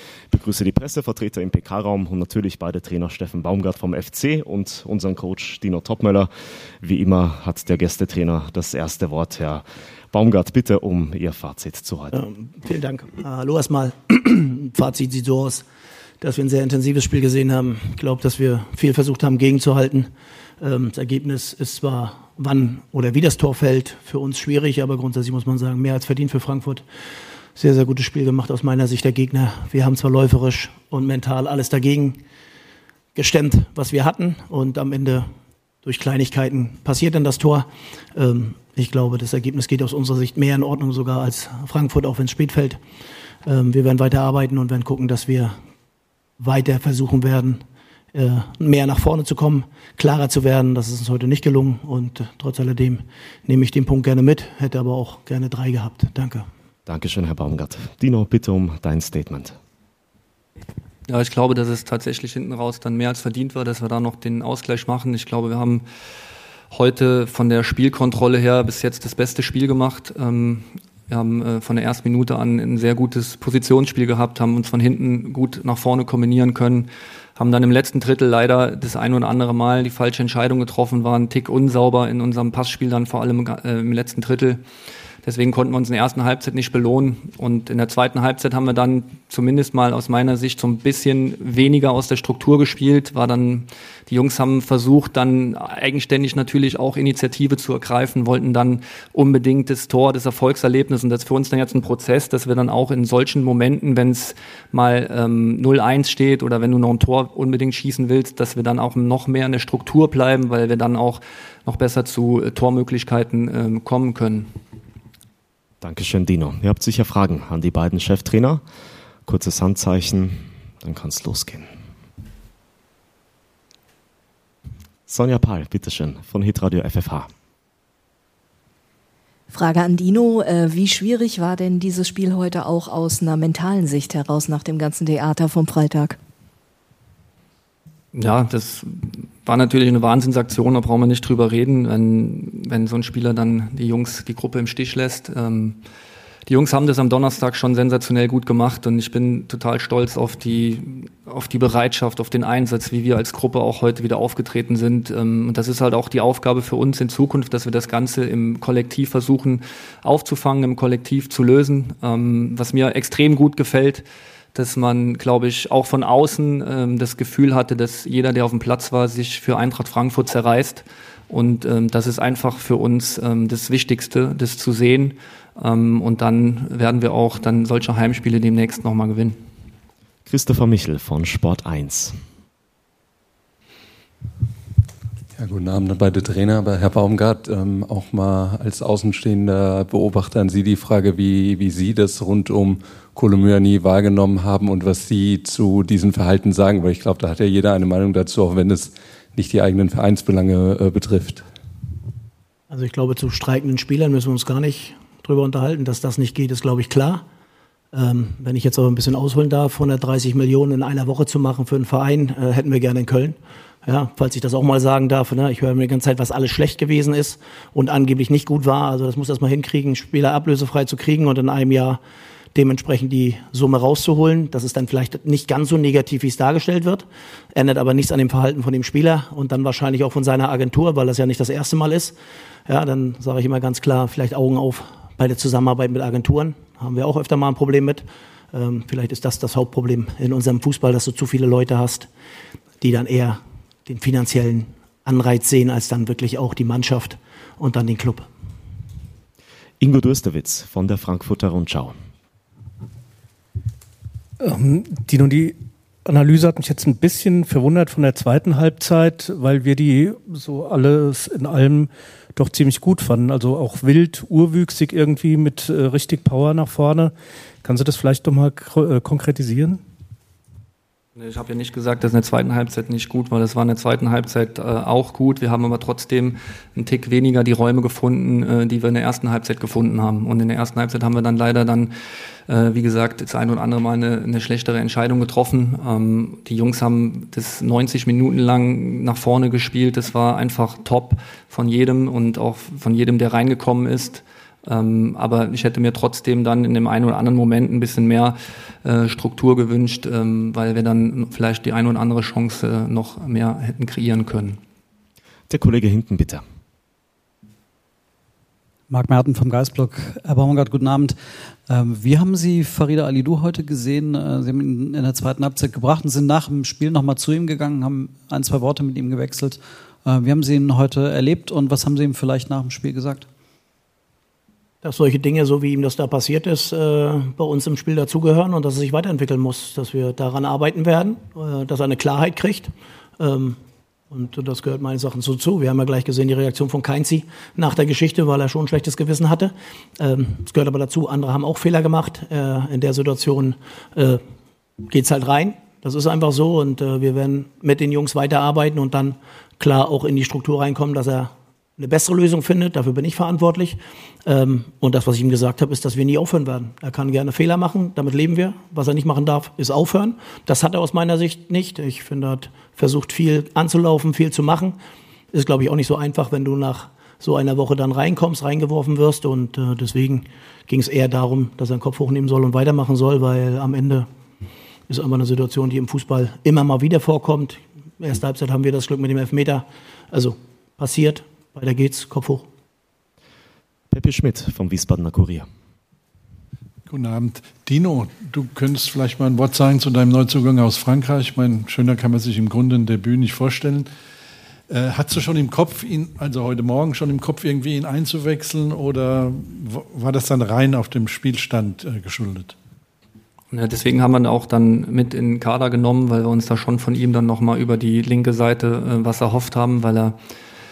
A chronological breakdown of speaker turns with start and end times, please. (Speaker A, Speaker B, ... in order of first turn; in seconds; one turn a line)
Speaker A: 0.3-6.3
Speaker A: 6.8-12.2
Speaker B: 12.1-15.7
Speaker B: 16.2-20.1
Speaker B: 20.6-26.8
Speaker B: 27.6-32.2
Speaker B: 33.1-35.3
Speaker B: 35.8-42.8
Speaker B: 43.4-45.5
Speaker B: 46.4-47.6
Speaker B: 48.1-56.4
Speaker A: 56.9-59.6
Speaker C: 61.0-65.8
Speaker C: 66.7-84.6
Speaker C: 85.2-114.5
Speaker A: 115.8-118.6
Speaker A: 119.2-121.7
Speaker A: 125.1-127.3
Speaker D: 129.5-136.2
Speaker C: 138.1-145.8
Speaker C: 146.5-179.4
Speaker A: 180.2-182.2
Speaker E: 185.3-201.4
Speaker B: 202.7-207.2
Speaker B: 207.9-222.0
Speaker B: 222.5-232.2
Speaker B: 232.7-242.1
Speaker B: 242.8-248.3
Speaker A: 249.8-251.9
Speaker F: 254.4-269.8
Speaker C: 271.1-281.9
Speaker C: 282.5-304.6
Speaker A: 305.5-306.4
Speaker G: 308.9-311.1
Speaker G: 311.7-323.2
Speaker B: 324.8-333.6
Speaker B: 334.1-344.2
Speaker B: 344.8-364.8
Speaker B: 365.3-374.1
Speaker B: 374.9-382.4
Speaker A: 383.9-385.4
Speaker H: 386.9-393.8
Speaker H: 394.8-402.5
Speaker C: 403.5-410.1